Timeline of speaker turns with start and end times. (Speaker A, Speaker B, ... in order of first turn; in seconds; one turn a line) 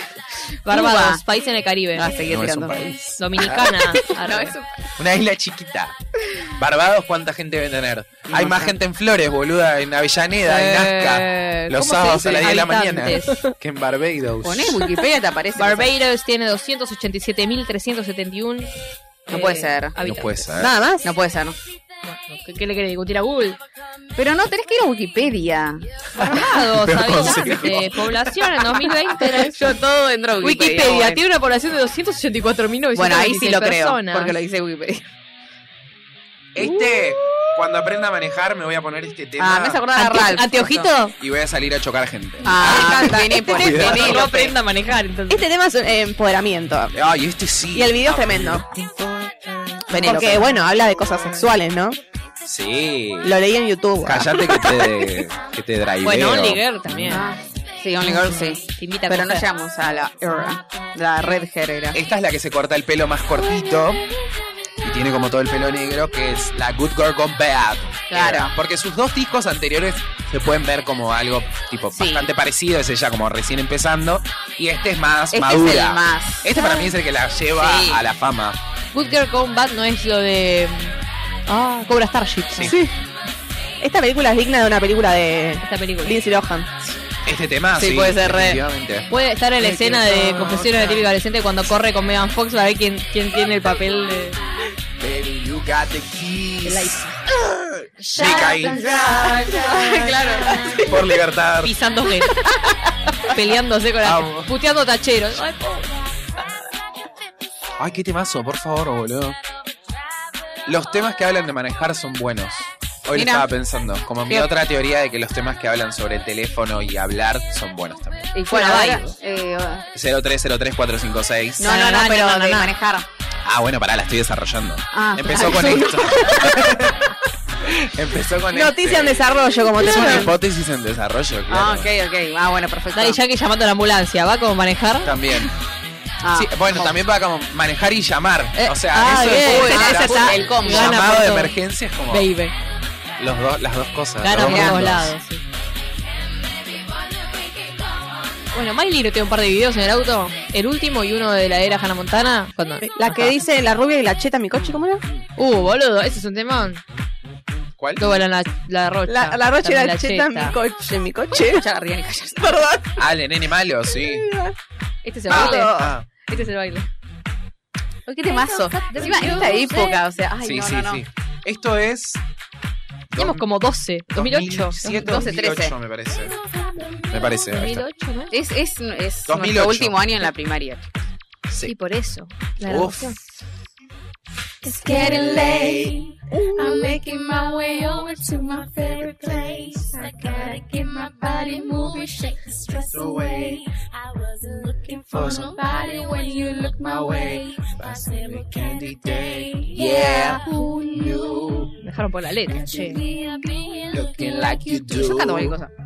Speaker A: 0.6-2.1
Speaker B: 0.7-1.2
Speaker B: 1.9-2.8
Speaker C: 2.2-4.0
Speaker A: 3.2-4.5
Speaker B: 4.0-4.8
Speaker C: 5.0-5.9
Speaker C: 6.5-14.9
Speaker B: 8.3-8.8
Speaker A: 10.4-13.5
Speaker B: 14.4-15.9
Speaker A: 15.6-18.7
Speaker B: 19.3-19.9
Speaker A: 19.3-20.6
Speaker C: 20.0-20.8
Speaker D: 20.6-21.1
Speaker B: 21.0-21.6
Speaker A: 22.0-23.6
Speaker B: 24.1-26.0
Speaker C: 26.1-28.3
Speaker A: 26.1-29.8
Speaker B: 29.1-31.2
Speaker A: 30.4-34.4
Speaker B: 32.9-35.0
Speaker C: 36.5-39.8
Speaker B: 39.4-40.9
Speaker A: 40.0-41.1
Speaker C: 41.2-44.3
Speaker B: 42.4-44.5
Speaker A: 42.5-45.4
Speaker D: 45.3-46.9
Speaker C: 46.9-50.3
Speaker D: 47.7-48.6
Speaker B: 49.9-50.5
Speaker D: 49.9-52.0
Speaker C: 52.4-53.4
Speaker D: 53.2-55.0
Speaker C: 54.0-57.2
Speaker A: 56.0-57.3
Speaker B: 57.1-62.0
Speaker A: 58.7-59.5
Speaker C: 61.9-64.0
Speaker C: 64.8-78.6
Speaker B: 68.1-68.5
Speaker B: 71.9-72.3
Speaker B: 75.3-76.9
Speaker B: 77.5-78.0
Speaker A: 78.9-81.0
Speaker A: 81.5-82.8
Speaker C: 82.5-82.8
Speaker D: 82.6-82.9
Speaker D: 83.8-86.7
Speaker A: 85.6-86.2
Speaker C: 87.2-91.1
Speaker B: 87.8-88.6
Speaker A: 89.1-94.4
Speaker C: 95.0-101.8
Speaker A: 96.6-97.2
Speaker E: 98.0-100.4
Speaker B: 98.3-98.5
Speaker B: 99.2-101.1
Speaker A: 100.5-100.8
Speaker A: 101.6-102.5
Speaker A: 103.2-105.9
Speaker C: 104.0-104.5
Speaker C: 107.8-109.4
Speaker C: 110.7-118.3
Speaker B: 113.1-113.5
Speaker B: 118.3-119.8
Speaker A: 118.5-119.1
Speaker C: 119.9-121.8
Speaker B: 121.6-123.1
Speaker A: 121.6-122.7
Speaker C: 123.4-131.9
Speaker B: 124.9-126.7
Speaker D: 128.5-130.3
Speaker B: 131.5-133.2
Speaker A: 132.9-135.1
Speaker C: 135.0-135.5
Speaker B: 136.2-136.9
Speaker C: 136.3-142.3
Speaker A: 138.6-141.5
Speaker B: 139.2-141.2
Speaker A: 142.1-142.5
Speaker C: 143.2-145.1
Speaker A: 144.2-145.4
Speaker B: 144.4-144.9
Speaker A: 148.5-153.3
Speaker D: 152.8-155.0
Speaker A: 155.4-156.8
Speaker C: 157.8-158.2
Speaker A: 158.0-160.6
Speaker D: 159.1-161.7
Speaker B: 161.3-162.8
Speaker D: 162.4-163.0
Speaker C: 163.0-164.3
Speaker D: 163.9-164.5
Speaker B: 165.0-165.7
Speaker A: 165.2-165.8
Speaker D: 165.3-165.9
Speaker C: 165.3-166.1
Speaker B: 166.3-166.7
Speaker A: 166.3-166.8
Speaker B: 168.1-171.0
Speaker A: 168.3-170.0
Speaker E: 169.0-169.7
Speaker C: 170.4-172.2
Speaker C: 173.1-173.4
Speaker A: 173.1-175.3
Speaker C: 174.1-176.4
Speaker B: 174.9-175.7
Speaker E: 176.3-177.3
Speaker C: 177.1-177.8
Speaker A: 177.5-178.3
Speaker B: 178.3-180.9
Speaker C: 179.3-180.1
Speaker C: 181.5-181.8
Speaker A: 181.6-183.2
Speaker C: 182.6-183.2
Speaker E: 184.6-193.7
Speaker C: 184.9-185.9
Speaker D: 186.3-186.9
Speaker C: 189.0-189.8
Speaker C: 192.9-193.6
Speaker E: 194.4-201.7
Speaker C: 195.1-195.6
Speaker C: 196.8-201.7
Speaker A: 201.8-203.0
Speaker E: 202.5-205.3
Speaker C: 203.9-205.6
Speaker B: 204.9-205.7